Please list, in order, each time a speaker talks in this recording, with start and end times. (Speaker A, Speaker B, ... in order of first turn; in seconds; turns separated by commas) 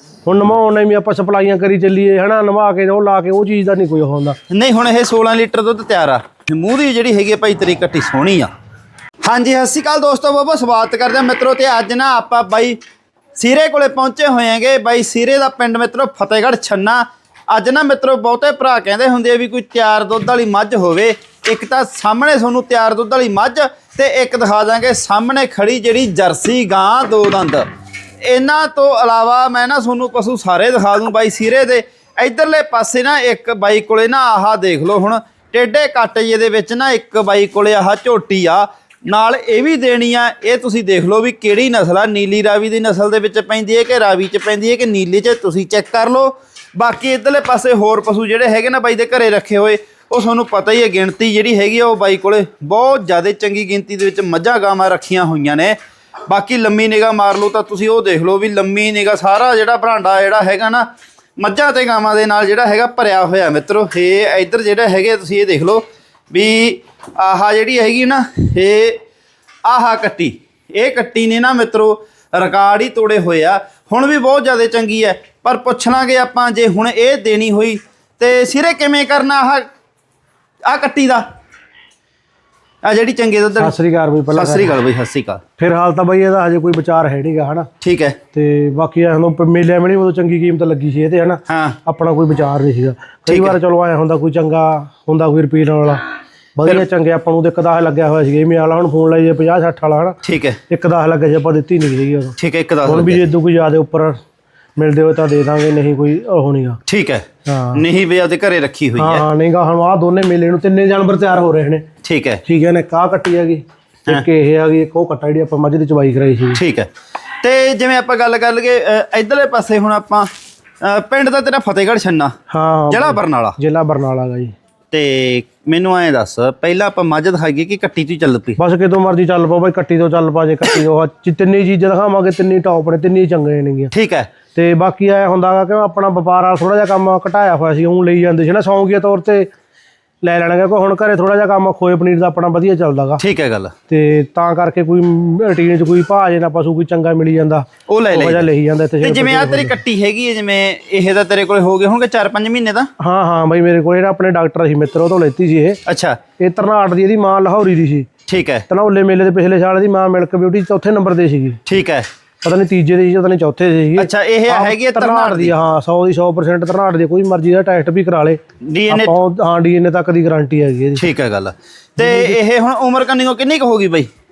Speaker A: 0.2-4.4, Speaker B: 4.5-8.5, Speaker B: 9.2-12.8, Speaker B: 13.4-27.7, Speaker B: 28.2-55.8, Speaker B: 56.3-60.9, Speaker B: 61.4-69.0, Speaker B: 69.7-79.7, Speaker B: 80.7-81.2, Speaker B: 82.8-83.8, Speaker A: 83.6-84.7, Speaker B: 84.3-85.4, Speaker A: 85.6-87.7, Speaker B: 87.8-88.2, Speaker A: 88.3-96.0, Speaker B: 91.5-91.8, Speaker B: 93.3-93.6, Speaker A: 96.6-100.2, Speaker B: 100.2-100.6, Speaker A: 100.7-104.2, Speaker B: 102.4-103.3, Speaker A: 104.8-106.8, Speaker B: 106.9-109.2, Speaker A: 107.5-107.8, Speaker A: 109.0-111.9, Speaker B: 112.0-112.4, Speaker A: 112.5-116.6, Speaker B: 116.5-116.9, Speaker B: 117.4-120.3, Speaker B: 120.8-122.4, Speaker A: 122.5-124.5, Speaker B: 122.9-123.6, Speaker B: 124.9-128.6, Speaker A: 128.6-133.9, Speaker B: 133.9-134.3, Speaker A: 134.6-139.5, Speaker A: 140.2-143.2, Speaker B: 143.2-143.7, Speaker A: 143.9-149.8, Speaker B: 147.9-148.4, Speaker B: 149.0-152.9, Speaker A: 153.0-155.8, Speaker B: 155.8-156.2, Speaker A: 156.4-158.1, Speaker B: 158.3-158.7, Speaker A: 158.7-161.6, Speaker B: 161.7-162.1, Speaker A: 162.4-171.0, Speaker B: 164.0-165.5, Speaker B: 168.7-169.1, Speaker B: 170.9-174.1, Speaker A: 172.0-172.4